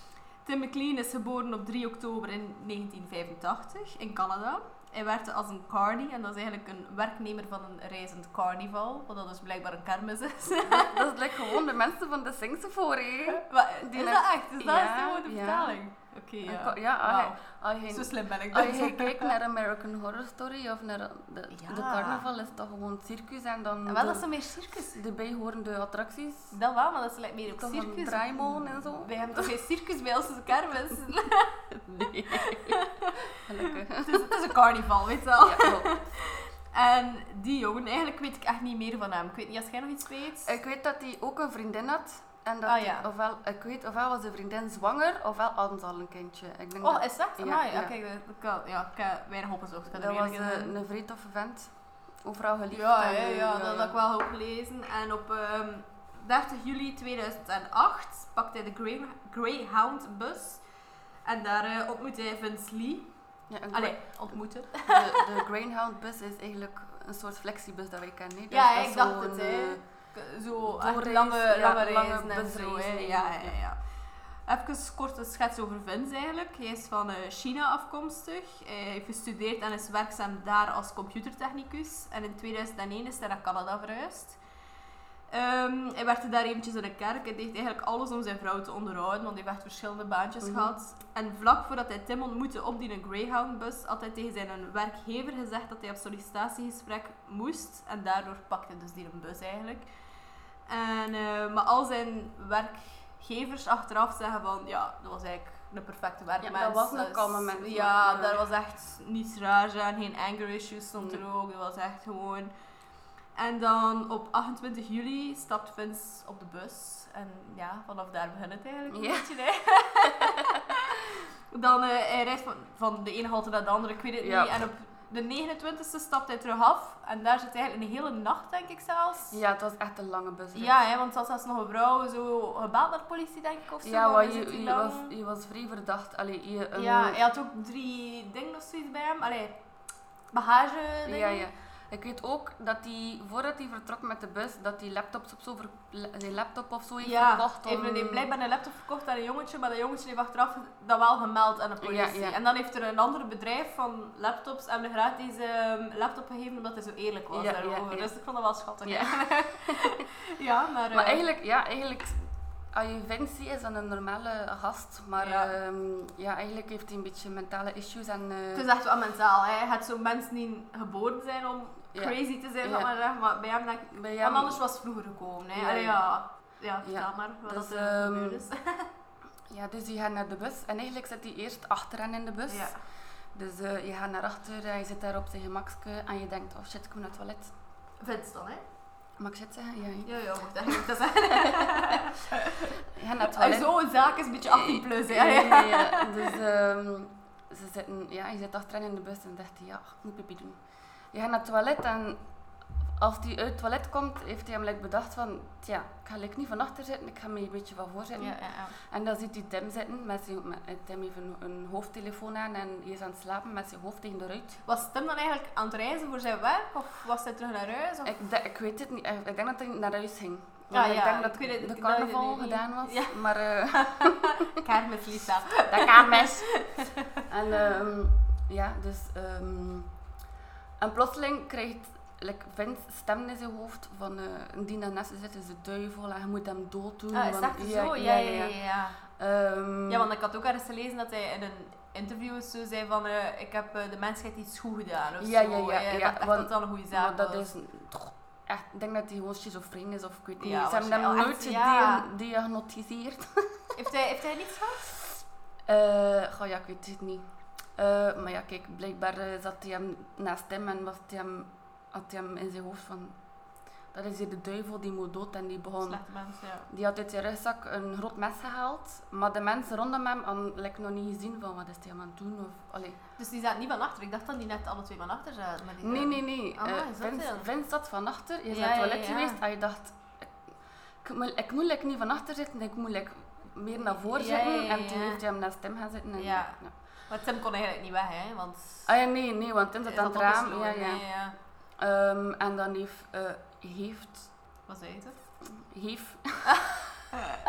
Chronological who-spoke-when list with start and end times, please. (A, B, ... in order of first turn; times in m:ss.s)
0:00.4-0:11.6 A
0:10.6-0:15.8 B
0:13.3-0:19.4 A
0:16.4-0:26.6 B
0:21.5-0:22.3 A
0:23.9-0:25.0 A
0:26.5-0:31.6 A
0:27.5-0:29.6 B
0:31.7-0:34.4 B
0:32.3-0:40.5 A
0:35.4-0:36.0 B
0:40.4-0:47.9 B
0:42.6-0:43.1 A
0:46.8-0:50.8 A
0:49.9-0:54.0 B
0:52.7-1:00.6 A
1:01.2-1:03.1 A
1:03.5-1:09.8 B
1:03.7-1:05.4 A
1:08.5-1:24.4 A
1:10.6-1:13.6 B
1:25.3-1:39.9 A
1:30.4-1:30.7 B
1:40.7-1:52.5 A
1:46.4-1:48.4 B
1:53.4-2:09.4 A
1:58.9-1:59.3 B
2:00.0-2:00.7 B
2:04.2-2:04.6 B
2:09.3-2:10.7 B
2:10.6-2:15.1 A
2:13.8-2:17.2 B
2:16.7-2:19.6 A
2:20.3-2:21.4 A
2:21.0-2:28.3 B
2:27.0-2:41.2 A
2:31.8-2:32.4 B
2:37.3-2:38.1 B
2:38.8-2:39.9 B
2:40.9-2:48.7 B
2:45.2-2:45.5 A
2:48.5-2:58.9 A
2:51.9-2:52.9 B
2:53.9-2:54.6 B
2:55.5-2:56.1 B
2:56.8-2:58.4 B
2:59.5-3:07.5 B
3:02.5-3:02.8 A
3:08.0-3:08.6 A
3:09.2-3:11.8 B
3:10.0-3:16.4 A
3:12.9-3:22.2 B
3:23.0-3:34.6 B
3:28.2-3:28.8 A
3:34.6-3:38.2 A
3:38.0-3:44.6 B
3:40.7-3:46.9 A
3:45.7-3:50.0 B
3:50.8-4:00.1 B
3:57.1-3:59.0 A
3:59.9-4:07.5 A
4:05.2-4:13.8 B
4:10.4-4:12.1 A
4:13.8-4:14.8 A
4:15.7-4:23.2 B
4:23.9-4:33.0 B
4:25.8-4:26.7 A
4:33.2-4:37.5 A
4:35.8-4:40.4 B
4:38.5-4:39.4 A
4:41.0-4:46.7 B
4:43.9-4:45.2 A
4:46.2-4:48.9 A
4:48.9-4:51.1 B
4:49.9-4:51.4 A
4:51.8-4:54.3 B
4:54.7-4:55.2 A
4:55.4-4:56.8 B